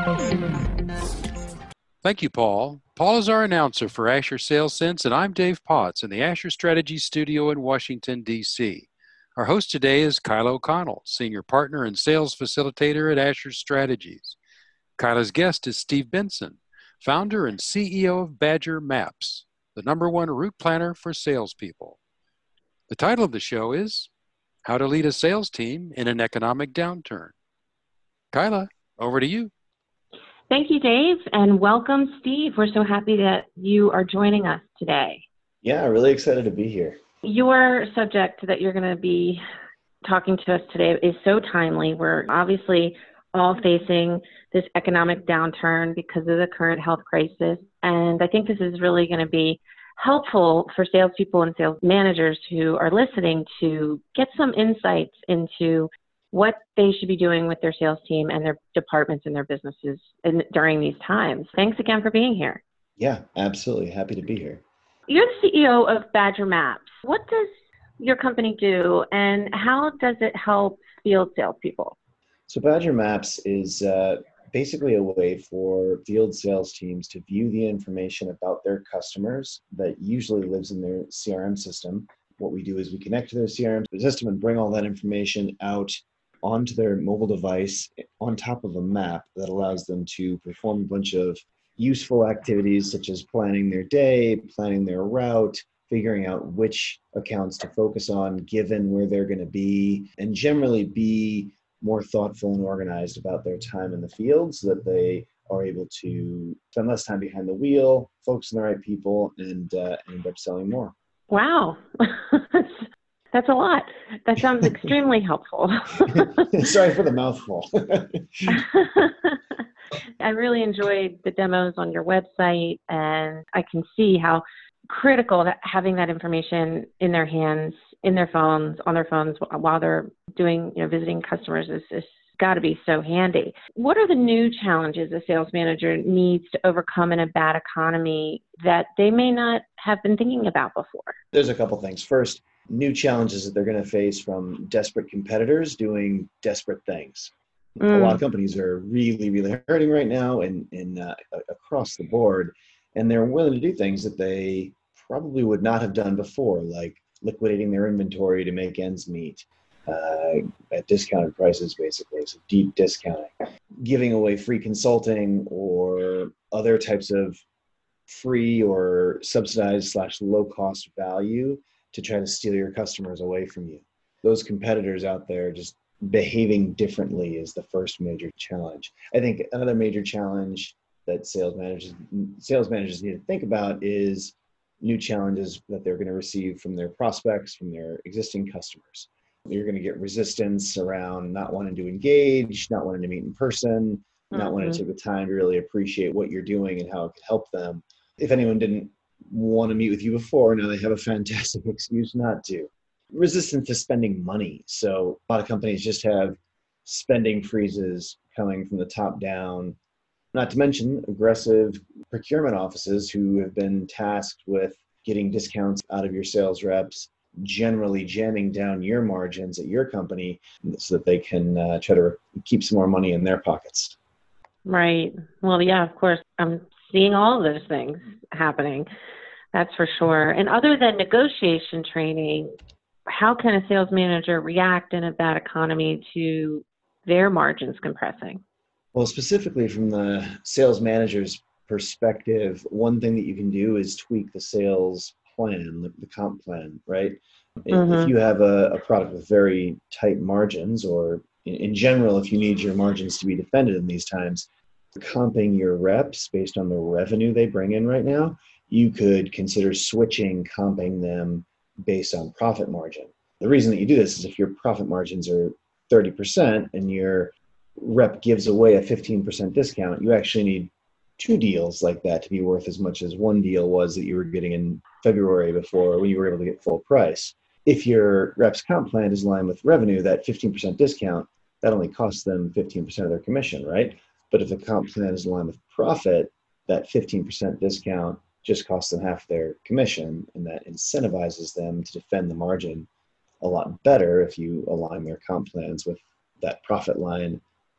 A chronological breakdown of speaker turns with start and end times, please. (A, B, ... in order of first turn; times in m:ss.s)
0:02.0-0:14.4 A
0:15.0-0:22.0 A
0:22.9-0:24.1 A
0:24.6-0:27.3 A
0:28.3-0:29.5 A
0:30.5-0:35.2 B
0:35.6-0:37.0 C
0:37.2-0:39.4 B
0:40.0-1:02.6 B
1:03.0-1:04.6 C
1:05.1-1:12.0 B
1:12.5-1:50.9 C
1:51.3-1:56.5 B
1:56.0-1:58.6 C
1:58.5-1:59.4 B
2:00.2-2:21.2 B
2:21.3-2:47.4 C
2:27.8-2:28.2 B
2:48.1-3:29.8 C
3:14.3-3:14.8 B
3:30.3-3:44.0 C
3:44.7-3:48.9 B
3:49.5-3:52.5 B
3:53.1-3:58.4 B
3:58.9-4:52.9 C
4:07.7-4:08.1 B
4:53.4-4:57.4 C